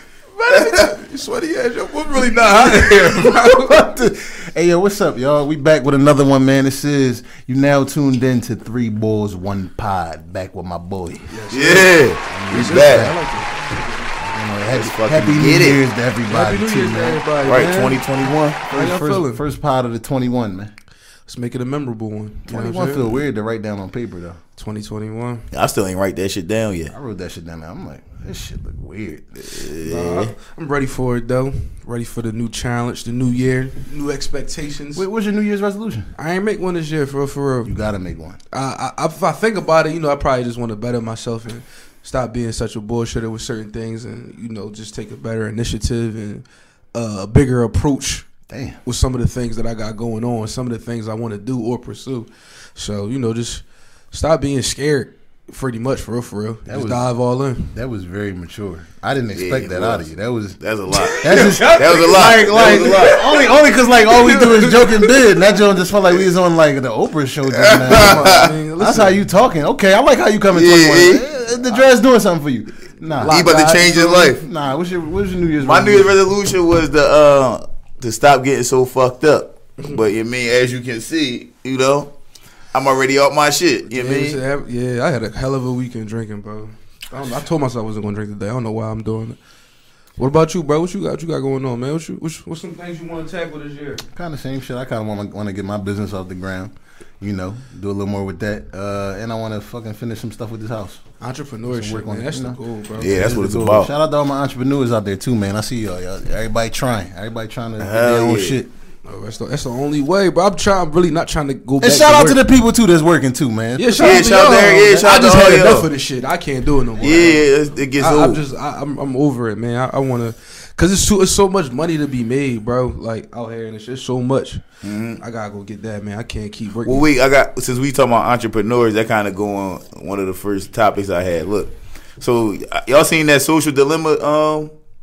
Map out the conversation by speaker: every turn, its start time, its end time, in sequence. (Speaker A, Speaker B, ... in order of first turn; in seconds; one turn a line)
Speaker A: 0.3-3.8
Speaker B: 0.5-0.8
Speaker C: 2.6-11.3
Speaker A: 11.3-14.2
Speaker B: 11.5-13.1
Speaker C: 12.3-13.1
Speaker C: 14.2-18.0
Speaker B: 14.7-15.8
Speaker A: 16.3-17.7
Speaker B: 17.4-18.6
Speaker C: 18.7-20.7
Speaker A: 18.7-19.4
Speaker A: 21.3-23.2
Speaker C: 22.5-24.4
Speaker A: 24.6-25.4
Speaker B: 25.5-26.9
Speaker C: 26.9-29.4
Speaker B: 29.5-30.3
Speaker A: 29.6-35.0
Speaker C: 35.0-36.1
Speaker A: 36.1-37.7
Speaker C: 37.6-38.4
Speaker A: 38.5-48.3
Speaker C: 48.5-48.8
Speaker A: 48.8-57.7
Speaker C: 56.6-57.0
Speaker C: 57.7-60.6
Speaker B: 59.3-60.1
Speaker B: 60.6-63.3
Speaker A: 60.9-63.5
Speaker C: 61.2-73.4
Speaker A: 64.0-65.2
Speaker B: 67.5-68.5
Speaker A: 67.9-69.2
Speaker B: 70.5-71.2
Speaker A: 73.1-74.3
Speaker B: 73.3-74.4
Speaker C: 74.1-76.1
Speaker B: 75.6-82.1
Speaker B: 82.7-84.4
Speaker A: 83.9-89.4
Speaker A: 90.2-94.0
Speaker C: 94.1-101.0
Speaker A: 101.2-103.4
Speaker C: 101.7-102.6
Speaker B: 103.0-103.9
Speaker C: 103.1-108.7
Speaker B: 107.8-108.6
Speaker A: 109.0-112.4
Speaker C: 111.8-115.0
Speaker A: 113.8-117.4
Speaker B: 114.0-115.9
Speaker B: 117.0-118.4
Speaker A: 118.0-124.6
Speaker B: 124.8-125.2
Speaker A: 125.2-127.0
Speaker B: 126.8-134.7